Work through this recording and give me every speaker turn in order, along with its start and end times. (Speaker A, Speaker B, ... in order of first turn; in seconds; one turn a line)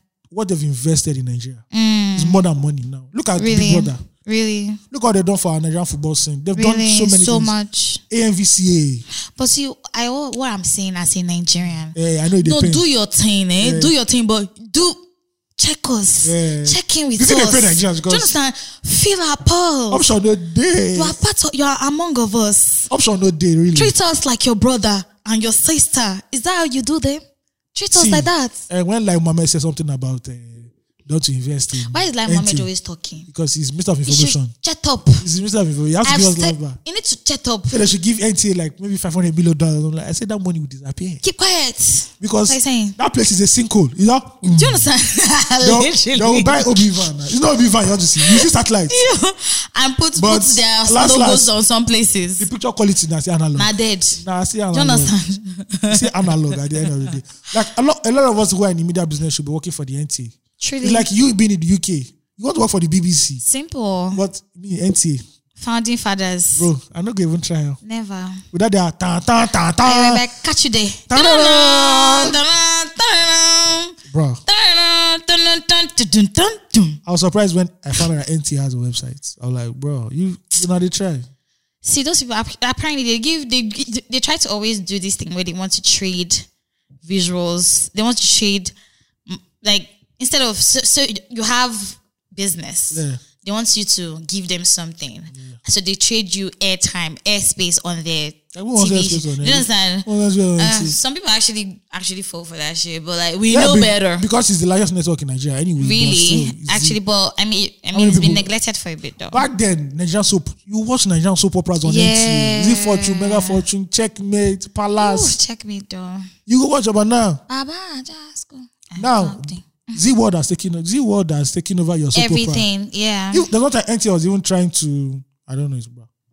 Speaker A: 0.3-1.6
Speaker B: 1.7-2.4
Speaker A: 2.1-4.0
Speaker B: 3.4-4.8
Speaker A: 4.9-7.5
Speaker B: 6.5-8.0
Speaker A: 8.1-9.0
Speaker B: 9.2-15.0
Speaker A: 11.9-12.8
Speaker A: 13.6-13.9
Speaker B: 15.6-20.1
Speaker A: 16.2-18.3
Speaker A: 19.9-21.2
Speaker B: 20.9-22.9
Speaker A: 22.9-23.9
Speaker B: 23.7-27.2
Speaker B: 27.7-28.6
Speaker A: 27.9-32.7
Speaker B: 31.8-33.3
Speaker A: 33.3-34.5
Speaker B: 34.0-35.3
Speaker A: 35.2-36.8
Speaker B: 36.0-37.8
Speaker A: 37.7-41.2
Speaker B: 41.2-43.0
Speaker A: 42.2-44.9
Speaker B: 44.4-46.9
Speaker A: 45.6-49.0
Speaker B: 48.2-52.5
Speaker A: 50.1-51.5
Speaker A: 52.4-55.1
Speaker B: 53.6-57.1
Speaker A: 55.9-63.4
Speaker B: 60.6-61.0
Speaker B: 63.4-64.2
Speaker A: 64.1-65.2
Speaker B: 65.6-66.7
Speaker A: 66.6-67.8
Speaker B: 67.8-68.4
Speaker A: 68.5-70.2
Speaker B: 69.8-73.9
Speaker A: 71.1-72.4
Speaker A: 74.1-74.4
Speaker B: 74.5-77.0
Speaker A: 77.0-81.3
Speaker B: 81.8-86.5
Speaker B: 87.0-88.7
Speaker B: 89.3-104.2
Speaker A: 92.9-93.2
Speaker A: 98.5-101.0
Speaker A: 103.5-107.0
Speaker B: 105.8-109.4
Speaker A: 107.9-108.5
Speaker A: 109.3-115.4
Speaker B: 111.8-113.6
Speaker B: 115.0-116.3
Speaker A: 116.5-117.4
Speaker B: 117.5-120.0
Speaker A: 119.0-122.7
Speaker B: 122.1-123.5
Speaker A: 123.3-126.1